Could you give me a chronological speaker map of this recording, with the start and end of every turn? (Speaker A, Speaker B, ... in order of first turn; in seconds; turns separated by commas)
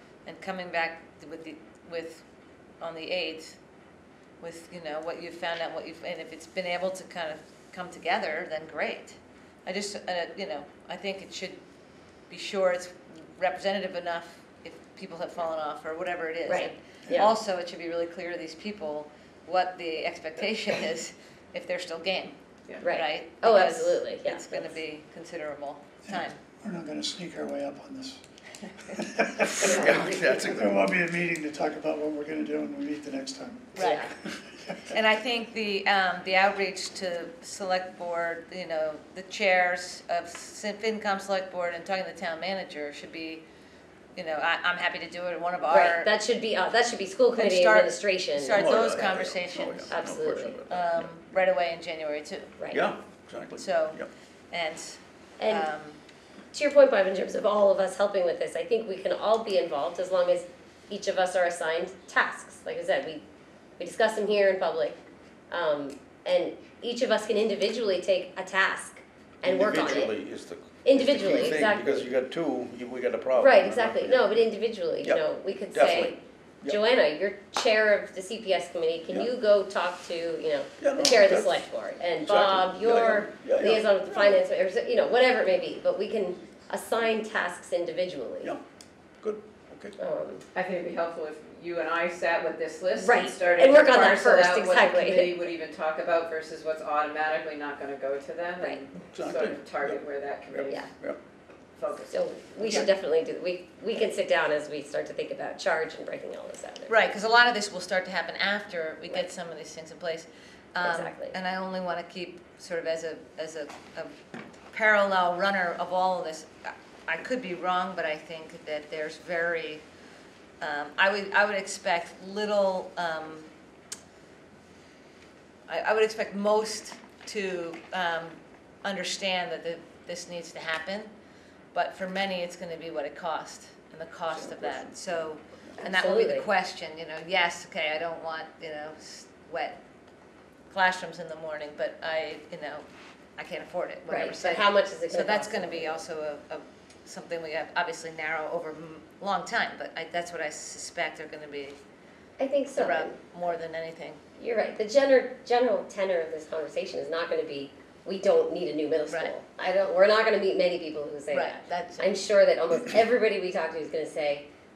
Speaker A: 0.3-2.2, Speaker A: 2.8-3.6, Speaker A: 4.4-11.6, Speaker A: 12.3-26.4, Speaker B: 16.5-17.3, Speaker B: 22.8-24.6, Speaker C: 26.1-28.2, Speaker C: 28.9-33.8, Speaker D: 29.6-30.8, Speaker A: 33.8-34.1, Speaker B: 33.8-34.1, Speaker A: 34.9-43.4, Speaker A: 44.1-46.1, Speaker B: 45.7-49.2, Speaker A: 47.4-50.0, Speaker D: 48.5-51.1, Speaker B: 49.9-50.6, Speaker A: 50.7-52.5, Speaker D: 52.7-54.1, Speaker A: 53.6-56.0, Speaker B: 55.4-55.7, Speaker B: 56.5-63.2, Speaker B: 63.8-65.0, Speaker B: 65.5-70.1, Speaker D: 69.4-74.4, Speaker B: 70.8-72.1, Speaker B: 73.4-88.5, Speaker D: 75.0-76.8, Speaker D: 80.8-81.6, Speaker D: 82.2-84.4, Speaker D: 89.2-90.0, Speaker B: 90.0-90.5, Speaker E: 90.5-100.9, Speaker B: 93.0-95.4, Speaker D: 99.1-101.2, Speaker E: 101.8-102.4, Speaker B: 102.1-107.1, Speaker A: 106.9-114.1, Speaker B: 110.8-111.4, Speaker A: 114.7-119.8, Speaker A: 120.6-123.5, Speaker A: 125.7-131.1, Speaker A: 131.7-139.8, Speaker D: 134.5-134.8, Speaker B: 135.8-136.5, Speaker A: 140.7-142.8, Speaker A: 143.4-151.8, Speaker B: 144.1-146.0, Speaker B: 152.4-153.2, Speaker A: 152.8-154.2, Speaker B: 154.4-164.5, Speaker A: 159.1-159.3, Speaker A: 161.3-162.2